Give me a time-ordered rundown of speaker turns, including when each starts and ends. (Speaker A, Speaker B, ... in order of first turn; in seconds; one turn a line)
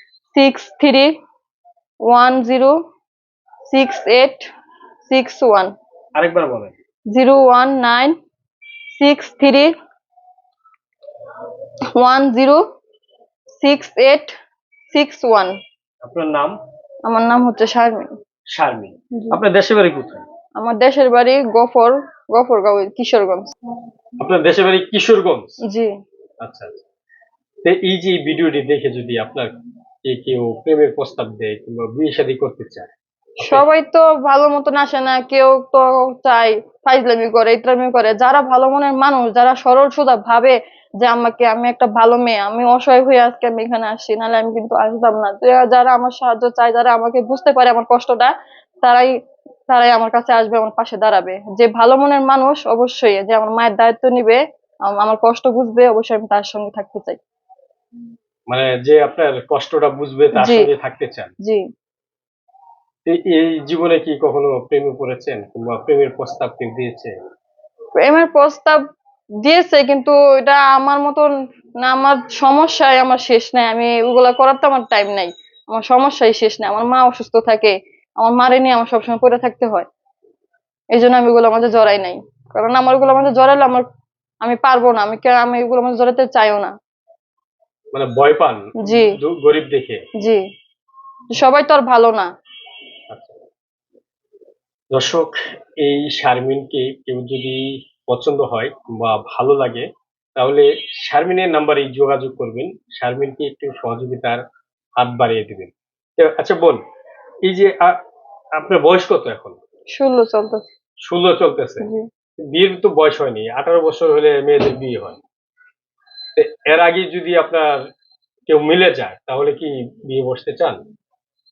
Speaker A: 0.3-1.1
Speaker A: 2.1-2.8
Speaker A: 3.7-4.5
Speaker A: 5.1-5.7
Speaker B: 6.2-6.8
Speaker A: 7.1-8.2
Speaker A: 9.0-9.7
Speaker A: 11.9-12.6
Speaker A: 13.6-14.3
Speaker A: 14.9-15.6
Speaker B: 16.0-16.6
Speaker A: 17.1-18.1
Speaker B: 18.5-20.2
Speaker A: 20.6-23.5
Speaker B: 24.2-25.6
Speaker B: 26.4-26.8
Speaker B: 27.6-29.5
Speaker B: 30.1-33.6
Speaker A: 33.4-49.1
Speaker A: 49.7-57.2
Speaker B: 58.5-61.3
Speaker A: 60.4-60.7
Speaker B: 63.1-67.1
Speaker A: 68.0-68.8
Speaker A: 69.4-71.3
Speaker A: 71.8-79.9
Speaker A: 81.0-83.9
Speaker A: 84.4-86.8
Speaker B: 87.9-90.0
Speaker A: 88.8-89.1
Speaker A: 91.3-92.3
Speaker B: 93.1-93.4
Speaker B: 94.9-99.9
Speaker B: 100.4-104.4
Speaker B: 105.0-106.8
Speaker B: 107.5-108.0
Speaker B: 108.6-109.6
Speaker A: 110.0-110.7
Speaker B: 111.1-111.9
Speaker B: 112.5-115.2
Speaker B: 116.4-117.7
Speaker B: 118.5-120.8